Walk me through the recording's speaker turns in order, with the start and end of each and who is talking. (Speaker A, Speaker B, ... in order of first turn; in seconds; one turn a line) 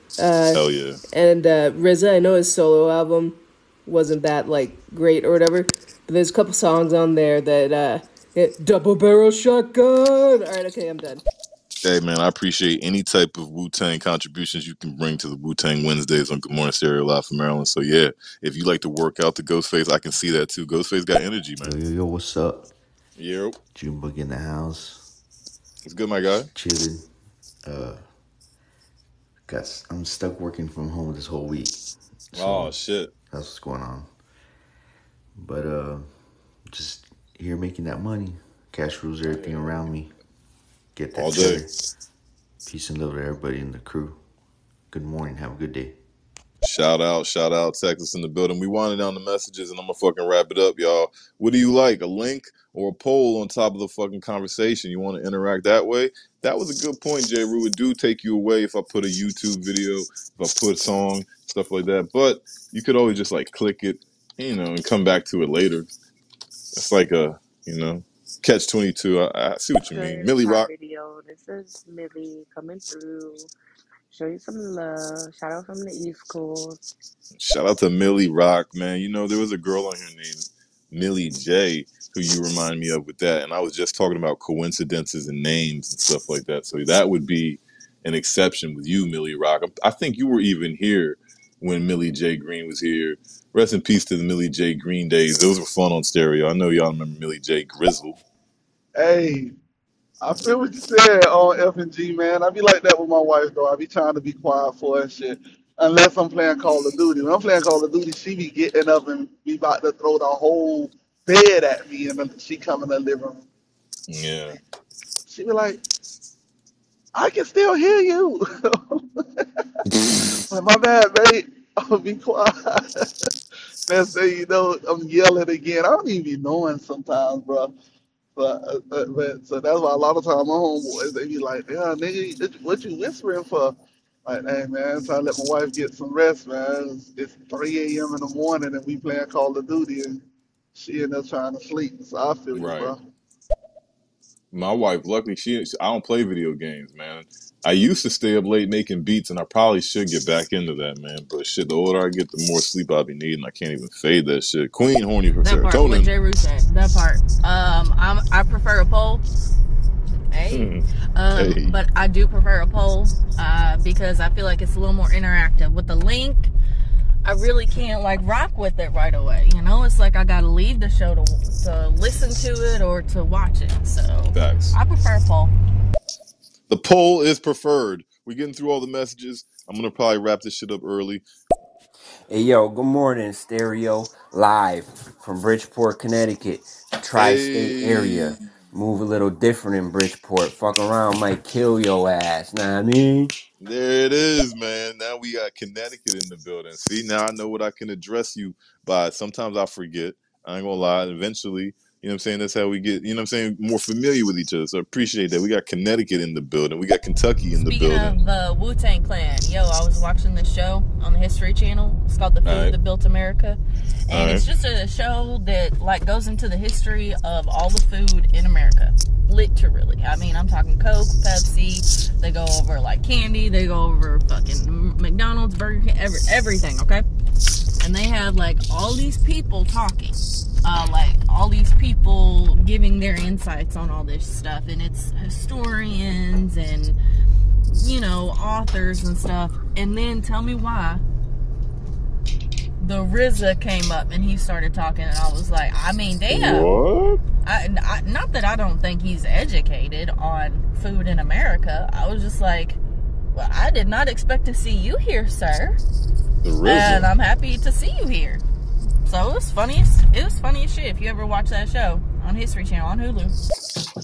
Speaker A: 0.2-11.2
Speaker B: 0.5-1.0
Speaker B: 11.8-21.8
Speaker C: 21.6-22.7
Speaker B: 23.2-23.6
Speaker C: 23.7-25.1
Speaker B: 25.8-26.5
Speaker C: 26.5-27.1
Speaker C: 27.6-28.1
Speaker C: 29.5-31.8
Speaker C: 32.3-32.8
Speaker B: 32.3-33.1
Speaker C: 33.3-34.1
Speaker C: 35.4-40.1
Speaker B: 39.3-39.9
Speaker C: 40.9-41.7
Speaker B: 41.1-41.6
Speaker C: 42.6-44.2
Speaker C: 44.9-46.0
Speaker B: 46.6-65.9
Speaker B: 66.7-70.7
Speaker D: 69.9-73.5
Speaker D: 74.1-76.8
Speaker B: 77.3-98.2
Speaker E: 99.0-99.5
Speaker E: 100.2-113.4
Speaker B: 114.1-114.6
Speaker E: 115.3-115.8
Speaker E: 117.2-119.6
Speaker E: 120.5-123.3
Speaker E: 123.9-127.7
Speaker E: 128.4-133.8
Speaker E: 134.3-140.2
Speaker E: 140.8-143.0
Speaker B: 142.5-142.9
Speaker B: 144.5-156.1
Speaker F: 155.4-159.2
Speaker F: 160.3-166.5
Speaker B: 160.5-161.8
Speaker F: 167.2-175.5
Speaker B: 174.3-174.8
Speaker B: 176.7-181.2
Speaker G: 182.3-193.3
Speaker B: 187.1-188.4
Speaker B: 193.6-208.2
Speaker F: 207.7-227.1
Speaker B: 212.4-212.8
Speaker B: 214.1-214.4
Speaker F: 227.8-237.0
Speaker F: 237.7-241.0
Speaker F: 242.8-246.7
Speaker B: 246.3-247.2
Speaker F: 247.4-252.8
Speaker F: 253.3-255.8
Speaker B: 256.4-257.1
Speaker F: 256.6-258.4
Speaker F: 259.1-263.4